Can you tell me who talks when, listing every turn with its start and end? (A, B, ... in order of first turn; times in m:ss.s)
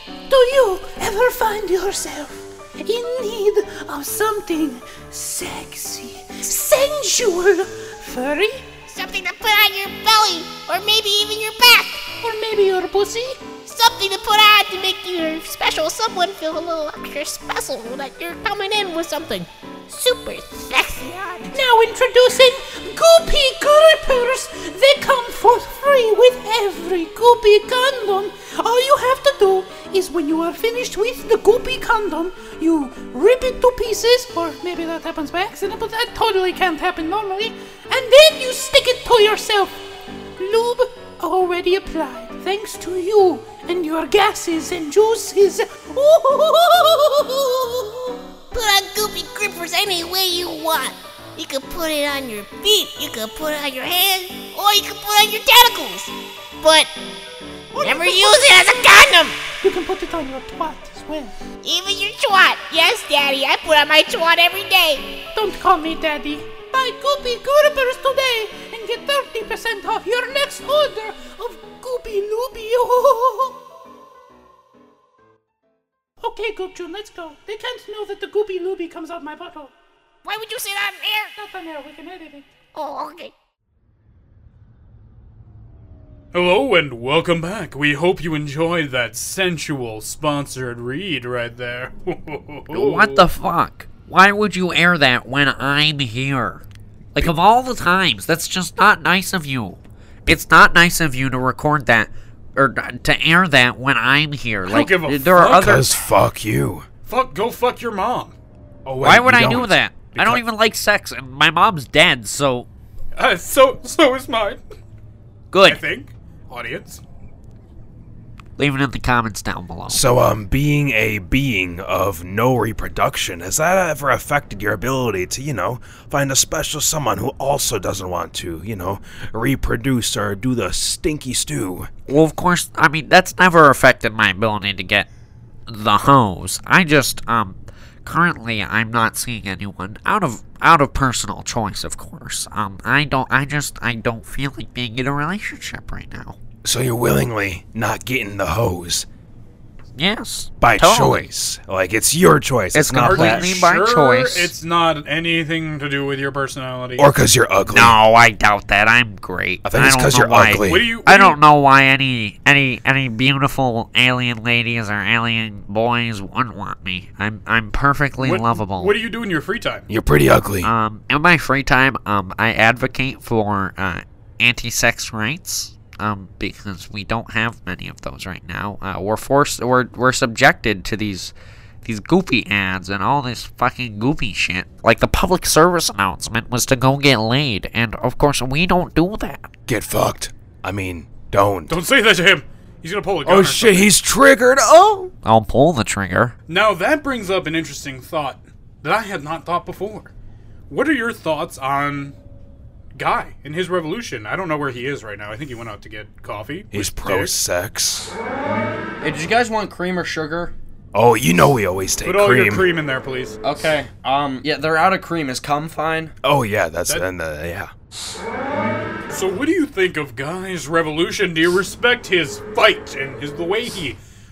0:00.3-0:08.7 A
0:08.9-0:12.0 B
0:12.2-0:13.6 A
0:13.6-0:21.6 B
0:21.5-0:39.8 A
0:40.4-0:48.0 A
0:48.5-0:56.9 B
0:57.7-0:58.9 A
0:57.7-0:59.4 B
0:59.6-1:01.4 A
1:01.6-1:05.2 B
1:05.3-1:13.6 A
1:16.2-1:19.7 A
1:20.2-1:21.3 B
1:21.4-1:22.5 A
1:22.7-1:23.3 B
1:26.3-1:33.2 C
1:32.7-1:36.6 D
1:37.2-1:45.9 D
1:44.7-1:45.8 C
1:45.4-1:46.9 E
1:47.1-1:48.4 C
1:48.9-1:50.4 E
1:49.0-1:52.7 D
1:53.2-1:54.6 C
1:55.5-1:55.8 D
1:55.6-1:57.0 C
1:58.6-2:00.1 D
1:59.9-2:11.9 E
2:12.1-2:15.1 D
2:15.7-2:26.4 D
2:26.6-2:29.1 E
2:30.0-2:31.3 D
2:30.6-2:33.5 E
2:32.7-2:34.5 D
2:33.0-2:37.1 C
2:37.0-2:38.0 E
2:37.7-2:49.0 D
2:39.6-2:40.8 E
2:40.6-2:41.4 C
2:48.2-2:49.9 C
2:49.9-2:50.7 E
2:50.6-3:09.5 D
3:09.7-3:11.8 E
3:11.7-3:13.9 C
3:13.2-3:15.1 E
3:15.2-3:16.4 D
3:16.5-3:20.1 C
3:20.7-3:22.2 C
3:23.0-3:27.4 C
3:26.7-3:28.2 E
3:29.0-3:30.5 F
3:30.9-3:32.7 E
3:32.0-3:33.4 C
3:33.4-3:36.2 F
3:36.2-3:37.7 E
3:39.1-3:44.0 C